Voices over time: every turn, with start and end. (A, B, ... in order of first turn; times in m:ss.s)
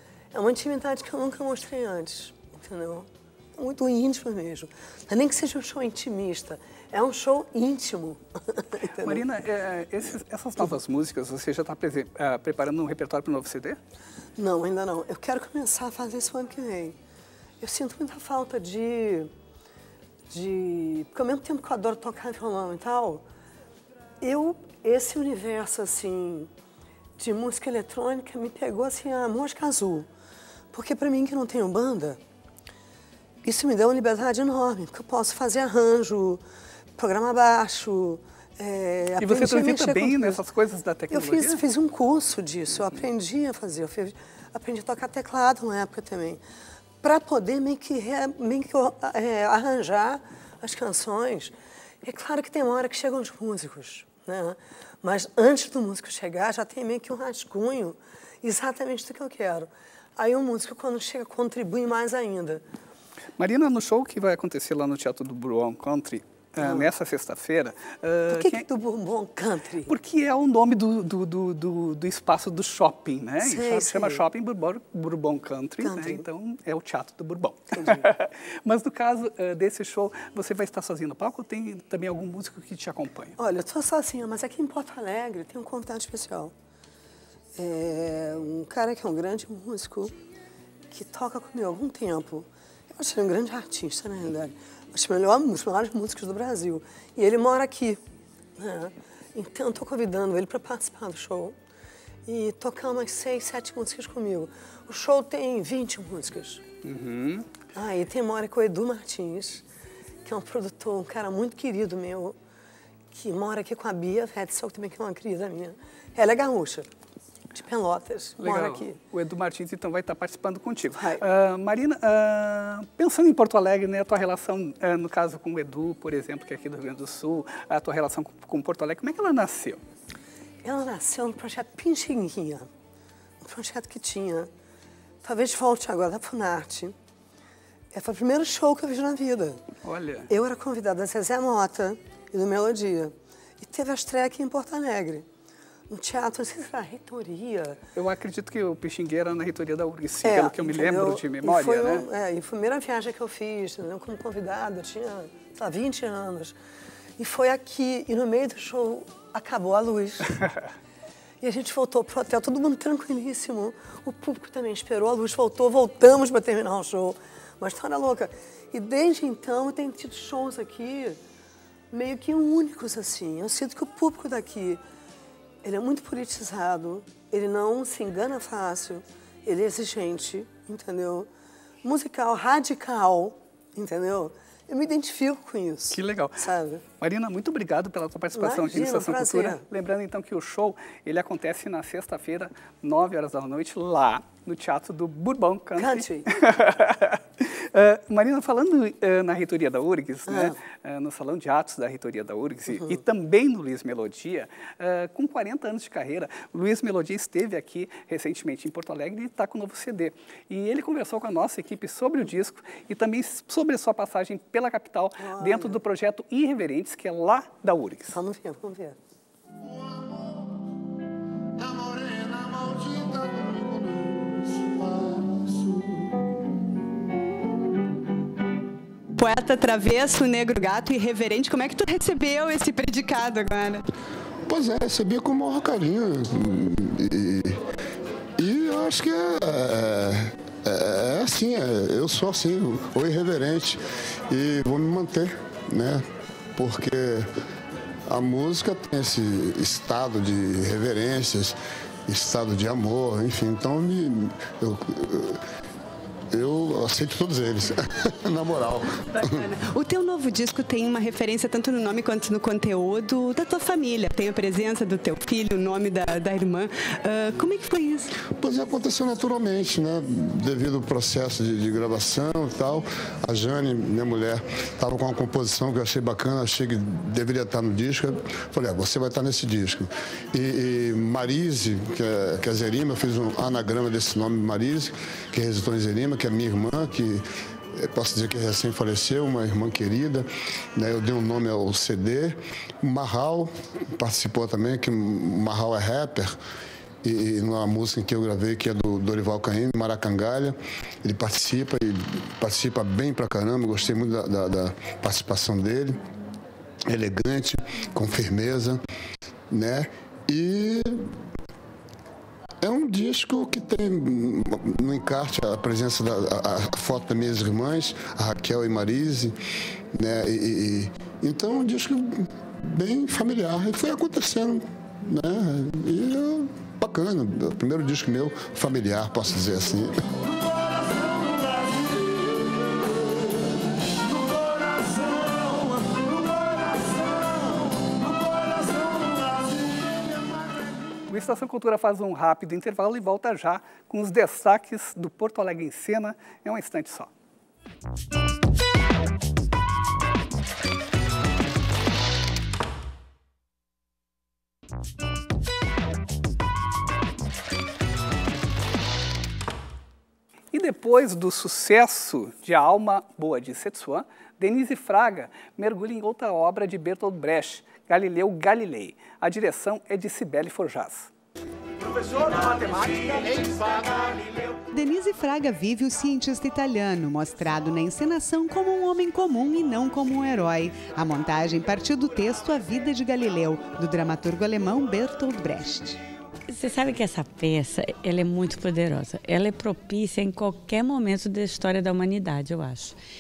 0:00.3-0:09.2 A
0:09.0-0:13.8 B
0:14.4-0:17.0 A
0:17.6-0:19.3 A
0:20.3-0:23.2 A
0:24.2-0:26.5 A
0:27.2-0:30.1 A
0:30.7-0:32.2 A
0:33.4-0:36.4 A
0:37.0-0:40.4 A
0:39.2-0:41.6 B
0:41.1-0:46.4 A
0:47.0-1:02.6 A
1:03.4-1:08.7 B
1:06.6-1:06.9 A
1:08.3-1:10.0 A
1:09.9-1:23.4 B
1:13.4-1:14.2 A
1:15.8-1:16.3 A
1:17.7-1:18.1 A
1:23.4-1:26.5 A
1:27.6-1:30.1 A
1:30.9-1:38.0 A
1:38.6-1:41.6 A
1:42.3-1:46.6 A
1:46.8-1:47.5 B
1:47.8-1:49.6 A
1:50.2-1:52.4 A
1:53.1-1:56.9 A
1:57.5-1:59.0 A
1:58.4-2:09.8 B
2:01.0-2:01.2 A
2:10.6-2:12.7 A
2:13.4-2:14.5 A
2:15.2-2:17.0 A
2:17.9-2:19.6 A
2:19.8-2:20.3 B
2:20.3-2:25.3 A
2:25.9-2:27.8 A
2:28.0-2:32.1 B
2:30.2-2:36.6 A
2:37.2-2:40.4 A
2:41.4-2:51.2 A
2:51.9-2:54.8 A
2:55.6-3:01.3 A
3:01.8-3:06.8 A
3:05.9-3:38.2 B
3:08.3-3:09.6 A
3:15.8-3:16.3 A
3:20.3-3:20.6 A
3:35.2-3:35.8 A
3:38.1-3:39.0 A
3:39.6-3:40.4 C
3:41.6-3:46.4 C
3:49.2-3:53.8 D
3:54.5-3:57.6 C
3:58.4-4:06.0 C
4:06.6-4:07.3 C
4:08.1-4:15.4 C
4:16.3-4:19.4 C
4:19.4-4:28.1 D
4:28.3-4:47.2 C
4:47.8-4:56.4 C
4:57.0-5:06.0 C
5:06.9-5:08.8 C
5:09.5-5:11.0 C
5:12.6-5:19.4 C
5:19.9-5:32.8 C
5:34.2-5:39.9 C
5:41.1-5:47.1 B
6:00.5-6:11.1 B
6:14.7-6:26.0 E
6:26.5-6:33.0 F